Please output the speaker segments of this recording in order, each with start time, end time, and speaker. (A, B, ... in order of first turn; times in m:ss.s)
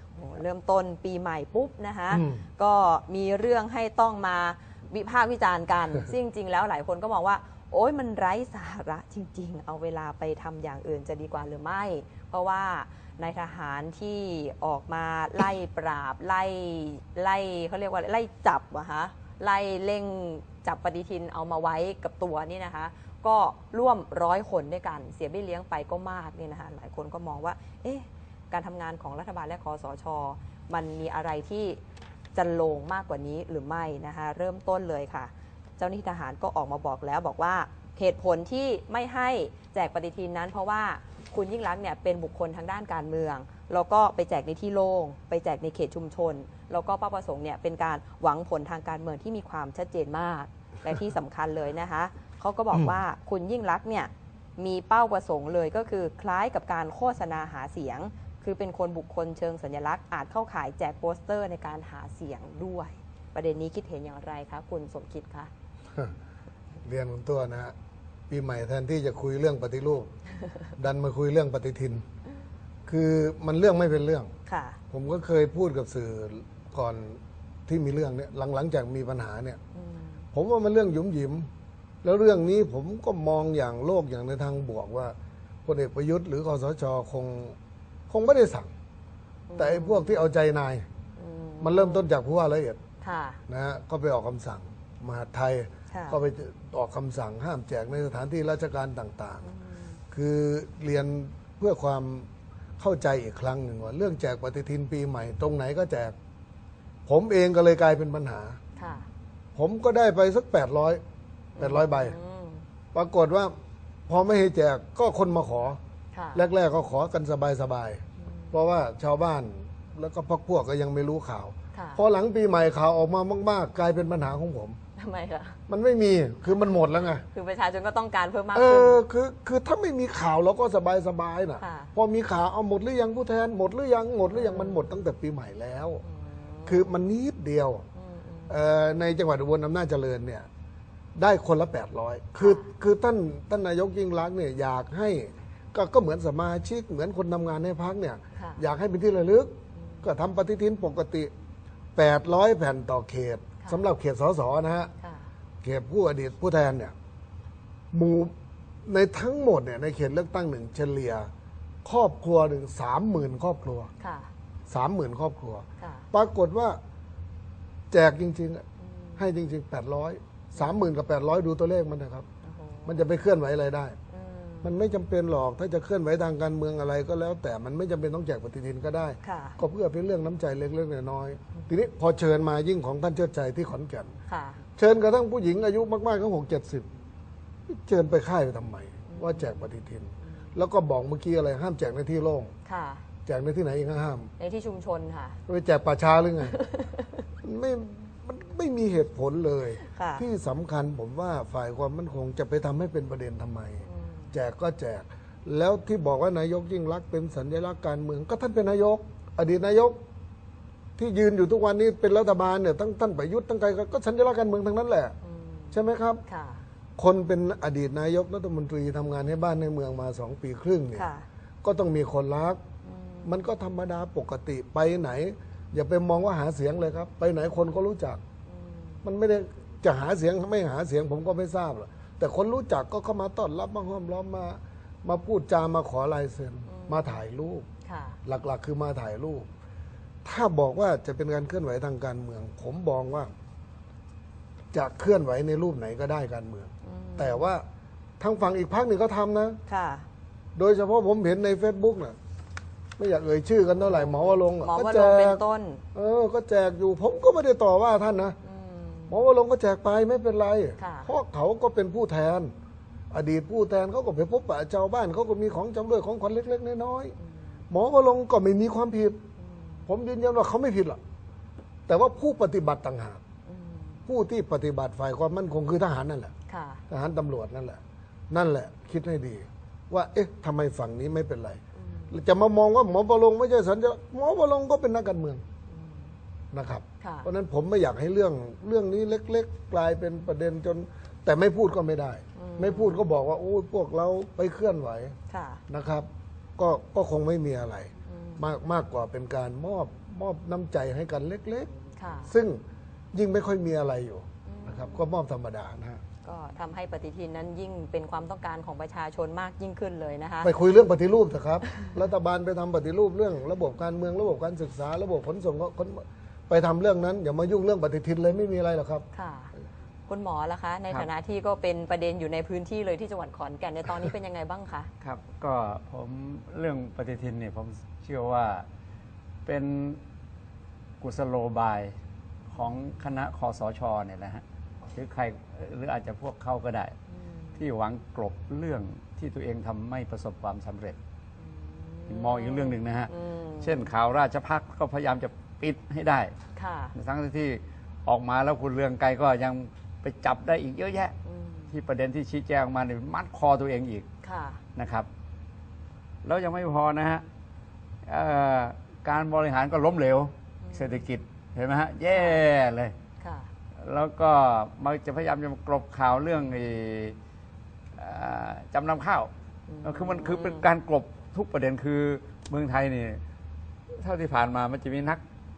0:00.1-0:31.8 A
0:02.1-0:02.4 B
0:32.3-1:05.5 A
1:06.8-1:07.7 B
1:08.3-1:10.1 B
1:10.8-1:12.0 B
1:12.8-1:14.3 B
1:14.4-1:14.8 A
1:14.9-1:19.6 B
1:19.7-1:20.2 A
1:20.3-1:21.5 B
1:22.0-1:25.1 B
1:25.6-1:27.6 B
1:28.1-1:28.7 B
1:29.5-1:30.2 A
1:29.6-1:30.8 B
1:31.2-1:32.0 A
1:31.6-1:32.8 B
1:33.0-1:33.4 A
1:33.5-1:39.5 B
1:35.9-1:36.2 A
1:39.4-1:40.0 A
1:40.1-1:42.3 B
1:42.8-1:46.1 B
1:47.1-1:48.6 B
1:48.8-1:49.1 A
1:49.6-1:51.0 B
1:51.6-1:52.6 A
1:51.6-1:52.2 B
1:52.9-1:53.5 B
1:54.1-1:55.8 B
1:56.1-1:56.4 A
1:56.3-2:04.8 B
1:58.2-1:58.5 A
2:01.7-2:02.0 A
2:05.0-2:05.6 A
2:05.7-2:07.2 B
2:07.2-2:09.0 A
2:08.5-2:16.0 B
2:11.6-2:11.9 A
2:14.3-2:14.9 A
2:16.0-2:16.9 A
2:16.6-2:17.8 B
2:17.9-2:18.5 A
2:18.5-2:20.5 B
2:21.2-2:31.3 B
2:22.4-2:22.7 A
2:28.3-2:28.6 A
2:29.7-2:30.0 A
2:32.0-2:34.9 B
2:35.0-2:35.3 A
2:35.6-2:36.9 B
2:37.9-2:38.3 B
2:38.8-2:41.3 B
2:41.8-2:43.9 B
2:44.0-2:44.3 A
2:44.7-2:46.8 B
2:45.8-2:46.1 A
2:47.9-2:48.6 B
2:48.8-2:49.2 A
2:49.2-2:52.2 B
2:52.4-2:53.0 A
2:52.8-2:54.0 B
2:54.1-2:54.8 A
2:54.6-3:04.1 B
2:59.2-2:59.6 A
3:04.3-3:04.6 A
3:04.8-3:06.9 B
3:07.7-3:12.5 B
3:09.1-3:09.5 A
3:12.6-3:13.0 A
3:13.2-3:14.3 B
3:14.4-3:15.4 A
3:15.5-3:16.6 B
3:16.5-3:17.2 A
3:17.4-3:30.0 B
3:19.8-3:20.2 A
3:23.8-3:24.3 A
3:31.0-3:35.1 B
3:35.2-3:36.6 A
3:35.7-3:36.2 B
3:37.0-3:41.1 B
3:40.9-3:41.2 A
3:41.6-3:42.6 B
3:42.8-3:43.3 A
3:43.2-3:48.2 B
3:48.4-3:49.0 A
3:49.0-3:57.6 B
3:56.6-3:57.2 A
3:57.8-3:58.2 A
3:58.2-3:59.5 B
4:00.2-4:03.3 B
4:04.7-4:07.6 B
4:06.8-4:07.5 A
4:08.2-4:09.6 B
4:09.7-4:10.0 A
4:10.6-4:12.2 B
4:13.0-4:15.4 B
4:13.8-4:15.8 A
4:15.9-4:18.4 B
4:18.4-4:19.2 A
4:19.1-4:22.5 B
4:20.8-4:21.1 A
4:23.1-4:27.2 B
4:27.7-4:29.2 B
4:29.4-4:29.8 A
4:29.9-4:31.0 B
4:31.9-4:33.2 B
4:33.4-4:34.0 A
4:34.1-4:36.3 B
4:36.5-4:36.8 A
4:36.9-4:45.4 B
4:41.8-4:42.1 A
4:45.7-4:46.1 A
4:46.5-4:55.2 B
4:47.0-4:47.3 A
4:52.3-4:53.0 A
4:55.3-4:55.6 A
4:55.7-5:01.7 B
4:58.1-4:58.4 A
5:02.0-5:02.3 A
5:02.3-5:02.6 B
5:03.1-5:06.0 B
5:04.4-5:05.0 A
5:06.2-5:10.5 A
5:10.4-5:19.0 B
5:19.1-5:19.5 A
5:20.1-5:24.9 A
5:25.0-5:28.6 C
5:29.4-5:30.0 C
5:31.0-5:32.0 C
5:32.5-5:34.4 C
5:34.9-5:36.9 C
5:37.1-5:37.5 A
5:37.6-5:41.0 C
5:41.4-5:43.9 A
5:42.1-5:46.3 C
5:46.5-5:46.9 A
5:46.9-5:51.1 C
5:51.2-5:51.7 A
5:51.7-5:54.0 C
5:54.2-5:54.6 A
5:54.8-5:55.1 C
5:56.2-5:57.2 C
5:58.0-6:02.9 C
6:00.6-6:01.0 A
6:02.1-6:02.4 A
6:03.2-6:03.5 A
6:03.8-6:07.1 C
6:07.9-6:09.3 C
6:09.7-6:10.6 A
6:09.8-6:13.2 C
6:14.0-6:15.2 C